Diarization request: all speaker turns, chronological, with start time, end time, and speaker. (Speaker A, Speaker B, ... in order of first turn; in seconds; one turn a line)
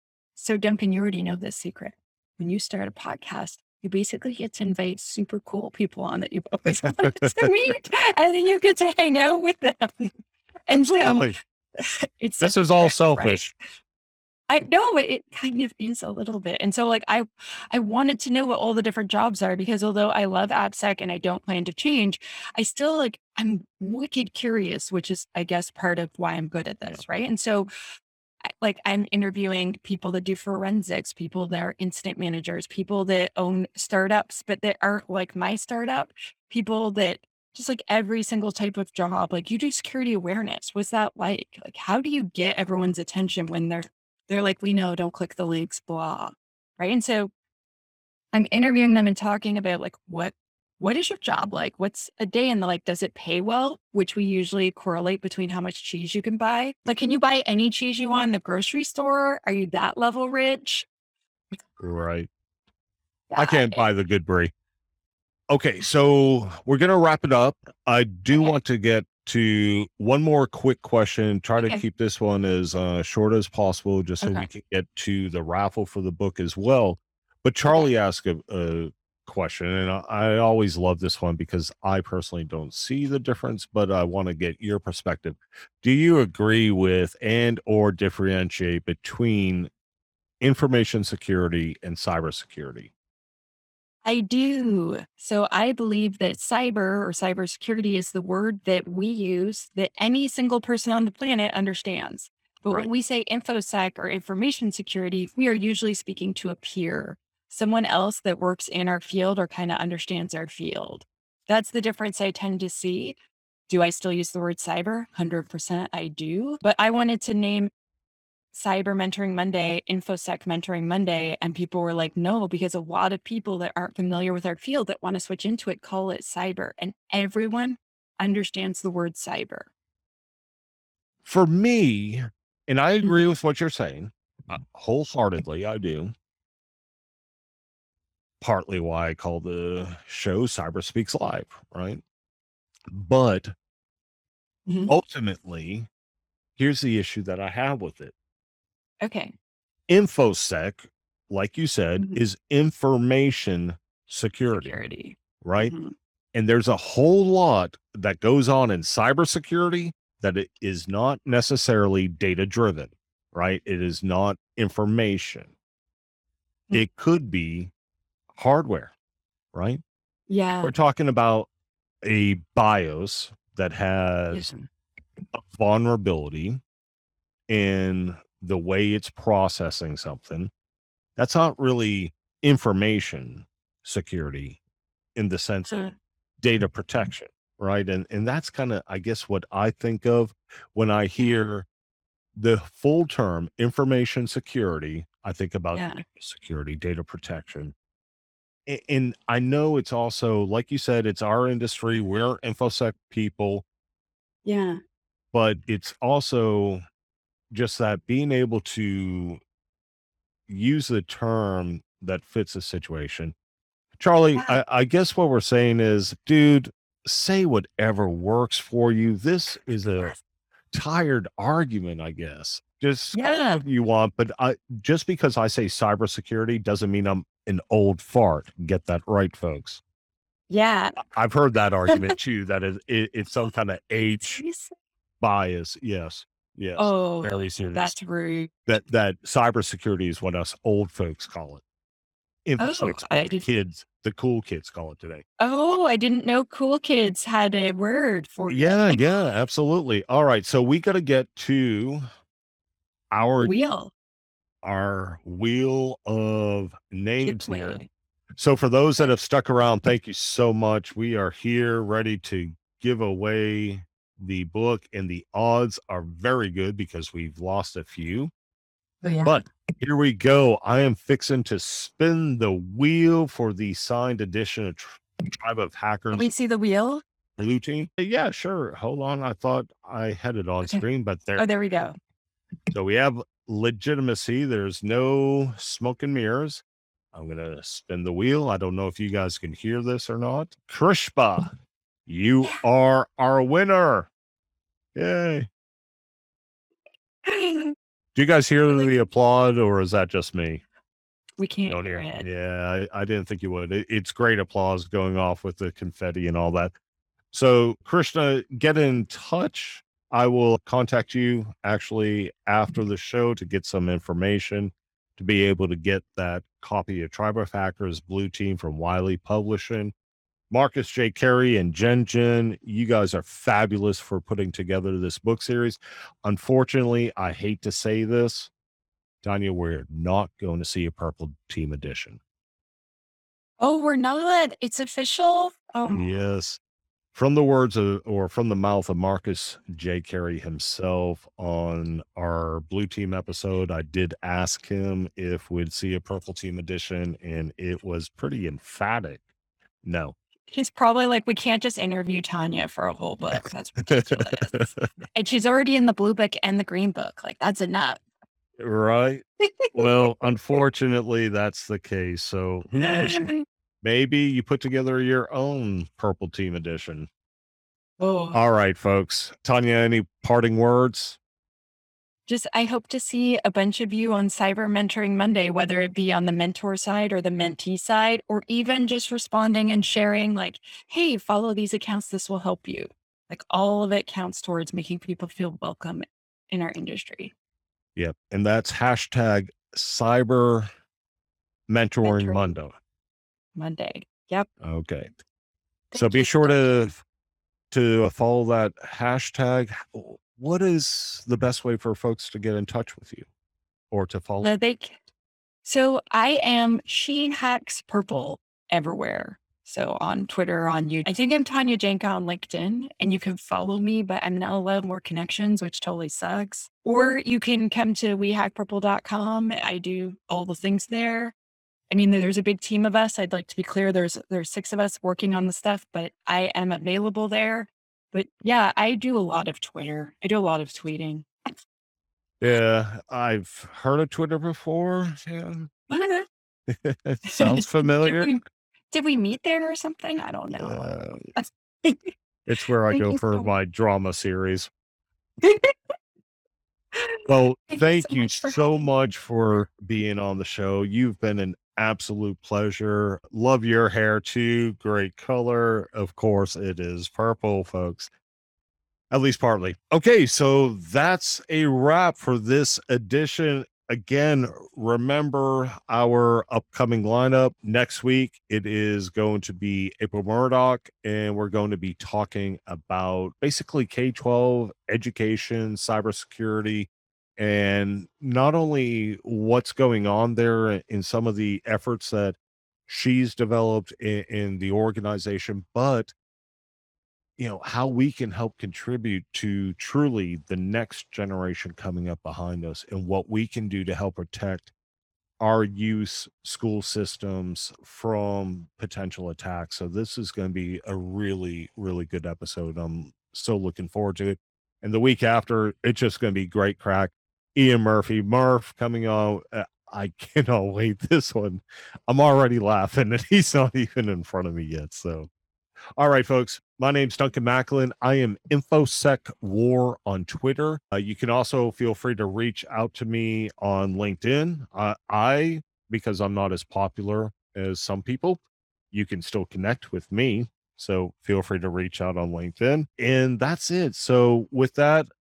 Speaker A: 0.4-10.1
Speaker B: 6.7-7.5
Speaker A: 10.7-13.4
Speaker B: 11.0-11.4
Speaker B: 12.4-13.5
Speaker A: 14.5-27.7
Speaker A: 28.6-47.3
Speaker A: 48.3-60.9
Speaker B: 61.8-62.3
Speaker A: 63.3-63.9
Speaker B: 63.4-64.5
Speaker B: 65.5-89.7
Speaker A: 74.2-74.5
Speaker B: 90.4-92.9
Speaker A: 94.0-113.2
Speaker A: 113.7-117.7
Speaker A: 118.5-129.7
Speaker B: 131.2-136.1
Speaker B: 138.4-142.0
Speaker B: 142.9-143.5
Speaker A: 144.7-144.9
Speaker B: 144.9-145.9
Speaker B: 146.6-148.1
Speaker A: 149.0-149.3
Speaker B: 149.9-154.8
Speaker A: 154.5-155.9
Speaker B: 155.4-155.7
Speaker B: 156.3-165.5
Speaker B: 166.7-167.7
Speaker B: 168.3-168.9
Speaker B: 169.5-169.8
Speaker A: 170.3-170.7
Speaker B: 170.6-171.5
Speaker B: 172.0-174.5
Speaker A: 174.3-174.7
Speaker B: 175.3-176.6
Speaker B: 177.5-180.5
Speaker B: 181.2-184.6
Speaker B: 185.2-191.7
Speaker A: 185.7-185.9
Speaker B: 192.3-197.8
Speaker A: 195.7-196.0
Speaker B: 198.7-203.7
Speaker A: 204.4-204.8
Speaker B: 205.3-206.8
Speaker B: 207.5-209.4
Speaker B: 210.5-213.3
Speaker B: 214.0-220.2
Speaker B: 220.7-229.8
Speaker A: 223.1-223.6
Speaker A: 230.5-231.0
Speaker B: 231.0-234.4
Speaker A: 231.9-232.1
Speaker A: 234.2-234.7
Speaker B: 235.2-237.9
Speaker A: 236.8-238.5
Speaker B: 238.7-241.6
Speaker B: 242.4-245.2
Speaker A: 242.6-243.5
Speaker A: 245.4-249.0
Speaker B: 248.5-252.0
Speaker B: 253.1-253.6
Speaker A: 253.4-253.9
Speaker B: 254.6-257.8
Speaker A: 257.2-257.9
Speaker B: 258.4-268.3
Speaker A: 269.0-269.4
Speaker B: 269.2-276.3
Speaker A: 276.1-277.0
Speaker B: 277.4-281.5
Speaker A: 281.4-282.0
Speaker B: 282.7-291.5
Speaker B: 292.1-294.1
Speaker B: 294.9-295.5
Speaker A: 297.2-297.8
Speaker B: 298.1-300.6
Speaker A: 301.4-302.3
Speaker B: 301.7-306.7
Speaker B: 307.3-319.9
Speaker B: 320.5-328.5
Speaker B: 329.2-332.2
Speaker A: 333.6-336.0
Speaker B: 335.9-336.6
Speaker B: 337.1-349.3
Speaker B: 349.8-350.1
Speaker A: 350.5-358.0
Speaker B: 353.3-354.8
Speaker B: 358.6-363.3
Speaker A: 362.8-363.4
Speaker B: 363.8-367.1
Speaker A: 368.0-368.4
Speaker B: 368.3-371.2
Speaker A: 372.3-387.3
Speaker B: 388.0-390.7
Speaker B: 391.7-392.8
Speaker A: 392.0-392.5
Speaker A: 393.6-394.5
Speaker B: 394.6-395.1
Speaker A: 395.9-396.9
Speaker B: 395.9-397.0
Speaker B: 397.7-403.3
Speaker B: 403.9-404.5
Speaker A: 404.4-405.0
Speaker A: 405.6-421.4
Speaker A: 421.9-431.3
Speaker B: 432.4-435.7
Speaker A: 435.9-436.3
Speaker B: 436.7-438.3
Speaker A: 437.3-442.1
Speaker B: 440.6-441.3
Speaker B: 442.5-444.7
Speaker A: 442.9-443.5
Speaker A: 445.4-445.8
Speaker B: 447.3-458.1
Speaker A: 447.7-448.6
Speaker B: 459.1-486.1
Speaker B: 487.4-494.7
Speaker B: 495.4-515.3
Speaker B: 516.0-535.1